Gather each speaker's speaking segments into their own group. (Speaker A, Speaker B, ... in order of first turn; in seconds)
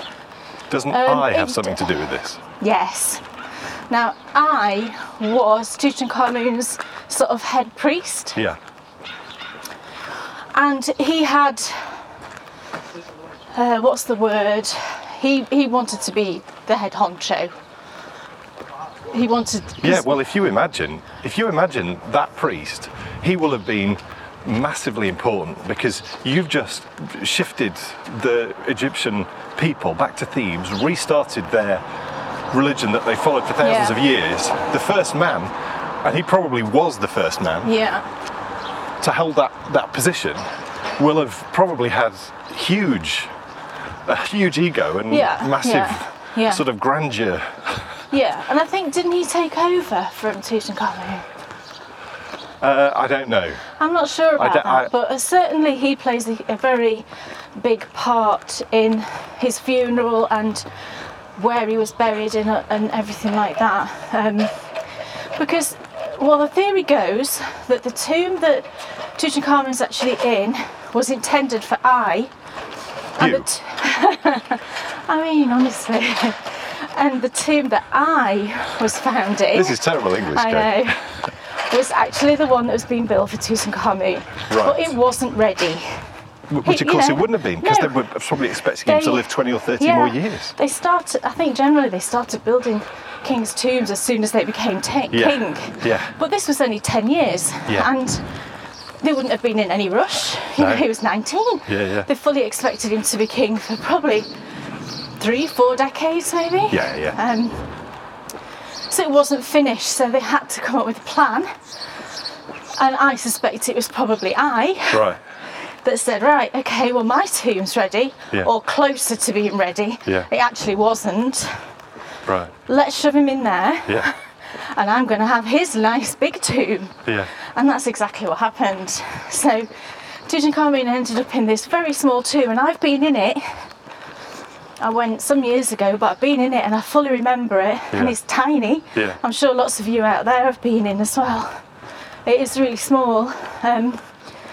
Speaker A: 0.7-2.4, 19.8-31.8, 32.5-35.5, 36.0-37.7, 39.0-40.4, 41.0-43.3, 44.0-48.0, 52.6-53.6, 54.4-54.9, 73.2-73.5, 79.5-81.0, 84.5-84.9, 86.5-90.5, 95.1-96.1, 100.6-100.8, 101.7-102.1, 106.7-107.2, 114.9-115.2, 122.2-122.5
Speaker B: 0.9-1.9, 2.6-3.2, 3.9-8.4, 10.5-12.0, 13.5-17.5, 19.1-20.2, 33.6-34.0, 37.6-38.1, 45.1-46.6, 48.1-51.2, 53.8-60.7, 61.4-64.5, 65.4-72.3, 73.2-81.1, 81.7-86.0, 86.6-87.9, 88.8-98.2, 99.0-104.3, 105.2-107.7, 108.9-111.5, 112.8-115.0, 115.8-121.6, 122.7-129.7, 130.3-133.4, 134.8-141.6, 142.2-144.0